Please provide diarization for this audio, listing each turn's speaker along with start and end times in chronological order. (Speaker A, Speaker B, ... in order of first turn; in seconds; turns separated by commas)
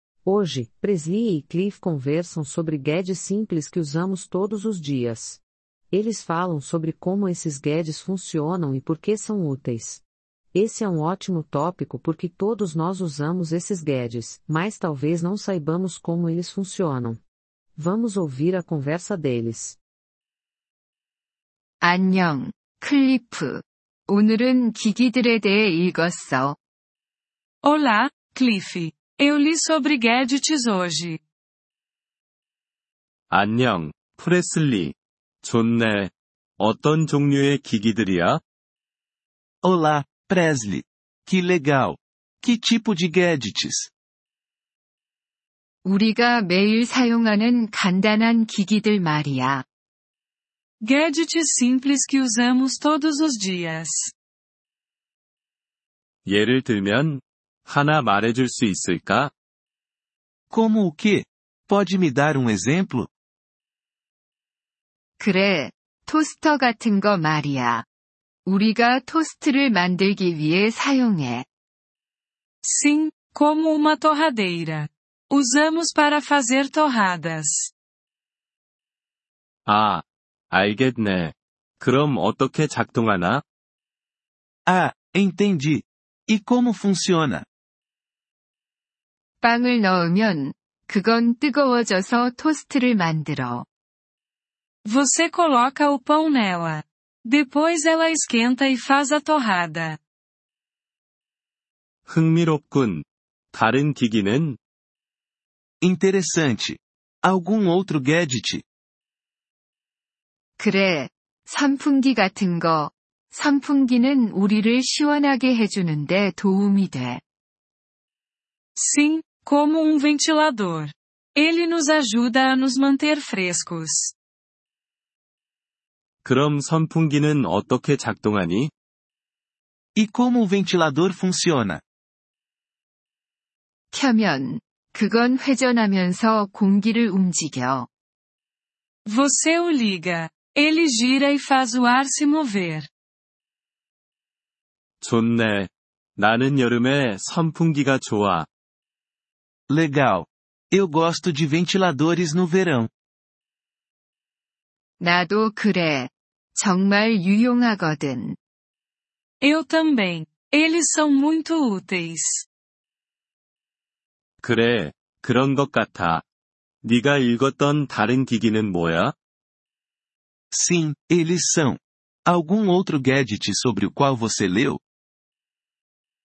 Speaker A: 0.2-10.0, Speaker A: 10.5-17.2, Speaker A: 17.8-19.8, Speaker B: 21.8-26.6, Speaker C: 27.6-31.2, Speaker D: 33.3-38.4, Speaker E: 39.6-43.9, Speaker B: 45.8-49.6, Speaker C: 50.8-54.1, Speaker D: 56.2-59.3, Speaker E: 60.5-63.1, Speaker B: 65.2-67.8, Speaker B: 68.5-71.5, Speaker C: 72.6-77.7, Speaker D: 79.7-83.4, Speaker E: 84.7-87.5, Speaker B: 89.4-93.6, Speaker C: 94.8-100.0, Speaker D: 102.1-104.6, Speaker E: 105.8-108.6, Speaker B: 110.6-117.2, Speaker C: 118.8-124.1, Speaker D: 126.2-128.7, Speaker E: 129.9-131.8, Speaker B: 133.9-137.9, Speaker C: 139.1-142.9, Speaker D: 145.0-148.5, Speaker E: 149.7-152.9, Speaker B: 155.0-158.4, Speaker C: 159.4-162.5, Speaker D: 164.4-166.2, Speaker D: 166.8-169.1, Speaker E: 170.5-174.8